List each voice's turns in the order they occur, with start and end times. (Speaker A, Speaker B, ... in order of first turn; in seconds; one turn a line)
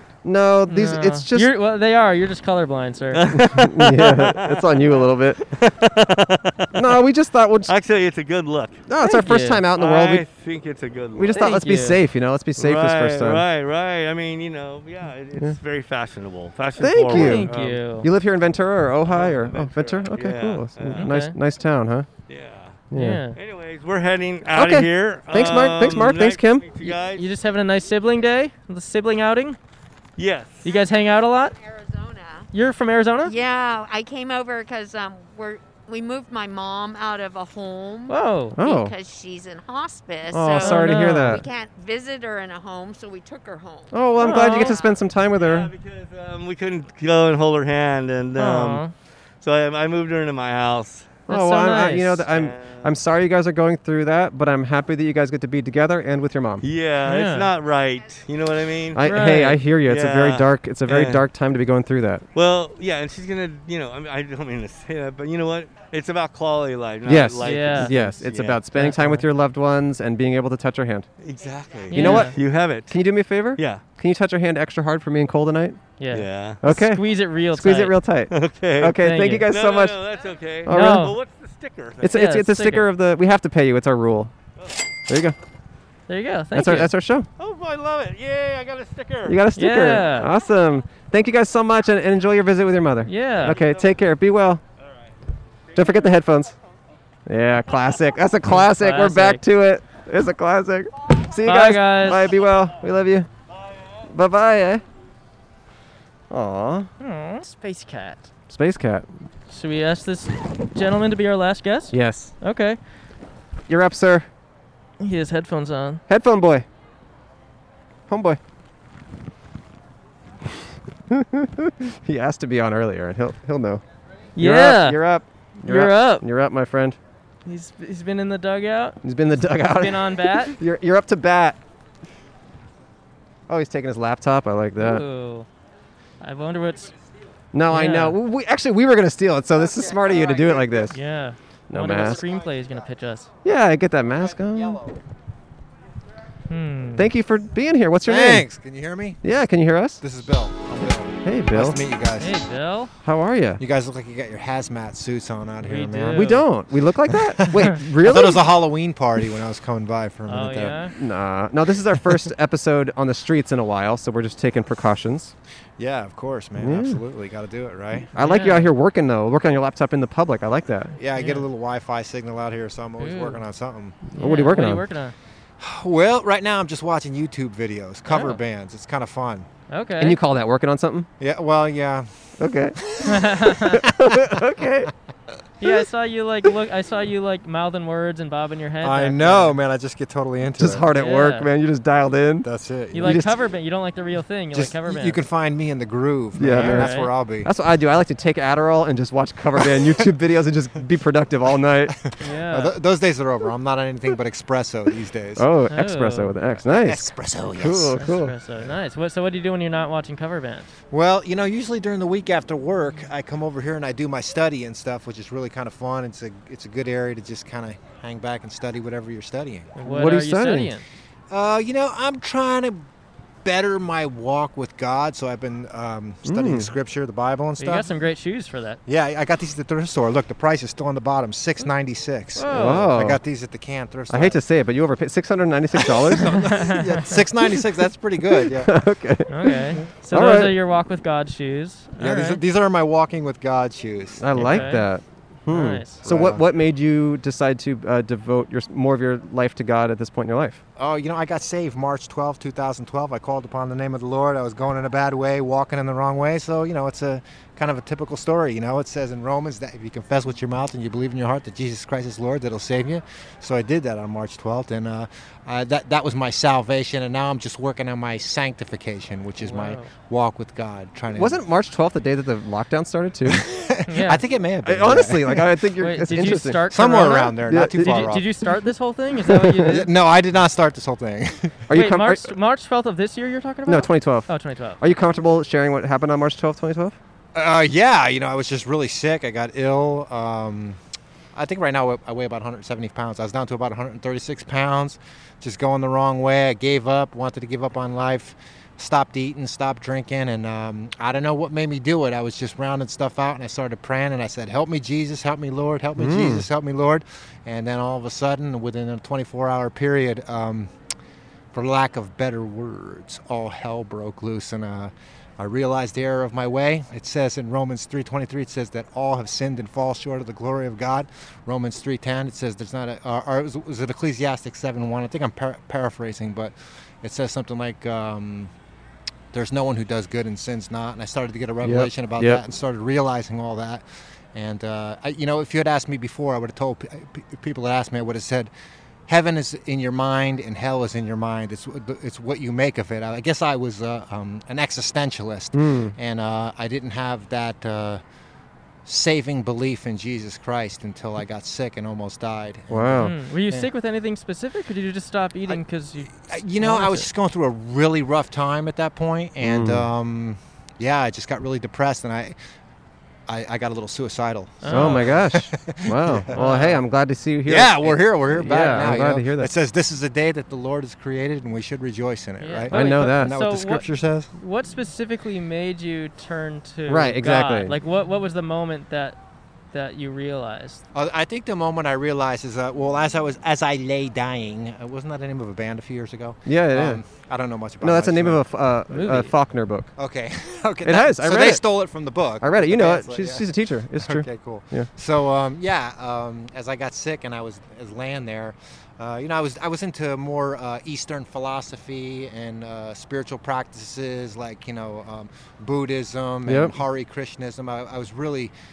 Speaker A: 0.2-1.5
Speaker B: 0.7-3.2
Speaker C: 3.1-7.0
Speaker A: 3.3-5.4
Speaker A: 6.7-7.7
Speaker C: 7.7-8.8
Speaker A: 8.9-10.2
Speaker B: 9.0-9.6
Speaker C: 9.7-11.6
Speaker A: 11.1-13.4
Speaker B: 11.3-12.0
Speaker C: 12.6-17.9
Speaker A: 16.8-22.1
Speaker B: 17.1-18.1
Speaker C: 19.1-21.2
Speaker B: 20.9-21.4
Speaker C: 22.3-27.3
Speaker A: 22.9-23.2
Speaker B: 22.9-23.4
Speaker A: 24.5-26.7
Speaker B: 27.1-29.6
Speaker C: 30.2-30.7
Speaker B: 30.6-31.5
Speaker D: 30.6-32.5
Speaker B: 32.5-33.3
Speaker D: 33.2-45.0
Speaker B: 38.1-38.6
Speaker A: 38.6-38.9
Speaker A: 40.3-41.4
Speaker B: 40.6-41.4
Speaker A: 43.9-45.7
Speaker B: 44.2-44.8
Speaker C: 45.4-48.8
Speaker B: 48.4-48.9
Speaker C: 49.4-51.2
Speaker A: 51.3-56.6
Speaker B: 51.3-52.2
Speaker C: 52.2-53.0
Speaker C: 56.6-59.0
Speaker B: 57.0-57.5
Speaker A: 58.9-62.2
Speaker B: 59.0-59.6
Speaker C: 59.8-61.2
Speaker C: 62.3-68.7
Speaker A: 67.0-71.1
Speaker B: 67.4-68.1
Speaker B: 68.7-69.2
Speaker C: 71.2-73.0
Speaker B: 71.9-72.3
Speaker A: 71.9-72.4
Speaker A: 72.9-75.8
Speaker C: 73.5-73.8
Speaker B: 76.0-78.0
Speaker C: 76.1-76.6
Speaker A: 76.6-80.0
Speaker C: 78.3-82.2
Speaker B: 79.0-79.5
Speaker A: 80.6-81.1
Speaker B: 80.7-81.2
Speaker A: 82.0-84.3
Speaker B: 82.1-82.9
Speaker A: 85.0-85.4
Speaker B: 86.1-86.9
Speaker A: 86.5-87.3
Speaker C: 87.4-89.5
Speaker A: 89.2-94.6
Speaker B: 89.5-90.3
Speaker B: 93.0-93.6
Speaker C: 93.4-94.0
Speaker C: 94.8-95.1
Speaker C: 95.7-96.2
Speaker A: 95.7-96.5
Speaker A: 97.2-103.3
Speaker B: 98.5-99.4
Speaker B: 101.4-102.3
Speaker C: 103.5-104.1
Speaker A: 104.1-104.8
Speaker A: 106.3-106.9
Speaker B: 107.0-108.3
Speaker A: 108.5-109.1
Speaker B: 109.5-112.8
Speaker A: 111.9-112.3
Speaker A: 113.7-114.3
Speaker B: 115.0-116.0
Speaker A: 116.1-116.7
Speaker A: 118.1-118.4
Speaker A: 121.1-123.8
Speaker B: 124.3-125.0
Speaker A: 124.3-127.0
Speaker B: 125.6-126.2
Speaker B: 127.5-129.0
Speaker A: 129.0-131.6
Speaker B: 129.6-130.5
Speaker A: 133.5-135.0
Speaker B: 134.8-135.5
Speaker B: 136.2-136.9
Speaker A: 137.5-141.0
Speaker B: 137.7-138.2
Speaker E: 140.3-140.8
Speaker B: 140.9-143.3
Speaker A: 141.7-142.3
Speaker A: 143.4-144.9
Speaker B: 146.5-147.1
Speaker A: 146.9-148.5
Speaker E: 148.0-149.2
Speaker A: 149.2-150.0
Speaker E: 150.0-152.4
Speaker A: 151.2-151.8
Speaker B: 152.2-152.9
Speaker A: 153.0-153.6
Speaker E: 153.6-156.4
Speaker B: 155.6-156.4
Speaker A: 156.1-158.4
Speaker E: 157.1-160.9
Speaker B: 160.3-160.9
Speaker A: 160.9-165.3
Speaker E: 165.8-168.1
Speaker A: 166.6-167.0
Speaker A: 168.1-170.9
Speaker B: 168.2-168.7
Speaker E: 171.0-174.0
Speaker B: 171.2-171.4
Speaker B: 173.0-173.4
Speaker B: 174.1-175.1
Speaker A: 174.2-174.8
Speaker E: 175.6-179.5
Speaker B: 178.1-178.4
Speaker B: 179.7-180.2
Speaker A: 180.0-181.1
Speaker E: 181.2-184.4
Speaker A: 182.4-182.8
Speaker B: 183.0-183.8
Speaker A: 183.6-184.9
Speaker B: 185.6-189.6
Speaker E: 188.8-190.9
Speaker A: 190.6-193.3
Speaker B: 190.9-191.5
Speaker E: 192.4-193.2
Speaker B: 192.9-195.2
Speaker E: 194.5-197.5
Speaker A: 196.4-201.9
Speaker B: 196.5-197.1
Speaker E: 199.6-200.1
Speaker E: 201.9-205.5
Speaker B: 202.2-202.8
Speaker A: 205.3-208.3
Speaker B: 205.7-206.3
Speaker E: 206.6-208.0
Speaker B: 208.0-210.7
Speaker E: 210.9-219.7
Speaker B: 219.8-220.8
Speaker A: 219.8-220.7
Speaker E: 221.3-222.9
Speaker E: 223.4-227.9
Speaker A: 226.2-226.7
Speaker B: 227.6-228.8
Speaker E: 228.8-234.4
Speaker B: 232.3-232.9
Speaker A: 232.5-233.2
Speaker A: 234.1-236.5
Speaker E: 235.7-238.8
Speaker B: 236.5-236.8
Speaker A: 238.2-240.6
Speaker B: 239.3-242.4
Speaker E: 242.0-244.7
Speaker A: 244.2-250.6
Speaker B: 244.3-244.8
Speaker B: 245.5-246.0
Speaker E: 246.0-246.4
Speaker E: 250.8-271.4
Speaker B: 269.4-269.9
Speaker A: 271.1-273.4
Speaker E: 273.2-275.5
Speaker B: 273.9-274.2
Speaker A: 274.6-276.6
Speaker B: 275.8-279.9
Speaker E: 276.7-278.3
Speaker A: 277.4-278.1
Speaker A: 279.2-279.7
Speaker E: 279.6-281.6
Speaker A: 281.7-282.3
Speaker B: 281.7-284.8
Speaker A: 283.6-287.0
Speaker E: 287.3-290.8
Speaker E: 291.3-310.7
Speaker A: 306.0-306.4
Speaker E: 311.5-328.5
Speaker E: 329.3-333.8
Speaker A: 331.6-332.4
Speaker E: 334.3-338.5
Speaker E: 339.1-348.0
Speaker A: 345.5-345.9
Speaker E: 348.9-353.7
Speaker A: 352.7-353.1
Speaker B: 353.0-356.1
Speaker E: 356.1-362.4
Speaker B: 356.6-357.1
Speaker A: 359.4-359.9
Speaker E: 363.3-366.7
Speaker B: 364.6-365.2
Speaker A: 364.7-369.5
Speaker B: 366.3-366.8
Speaker E: 367.4-374.3
Speaker B: 372.4-379.2
Speaker A: 372.7-373.4
Speaker A: 376.9-377.8
Speaker B: 379.7-380.8
Speaker E: 380.9-388.4
Speaker A: 386.4-387.0
Speaker A: 387.8-389.9
Speaker B: 388.9-389.3
Speaker E: 390.0-408.5
Speaker A: 390.8-391.6
Speaker A: 392.4-394.9
Speaker A: 406.4-406.8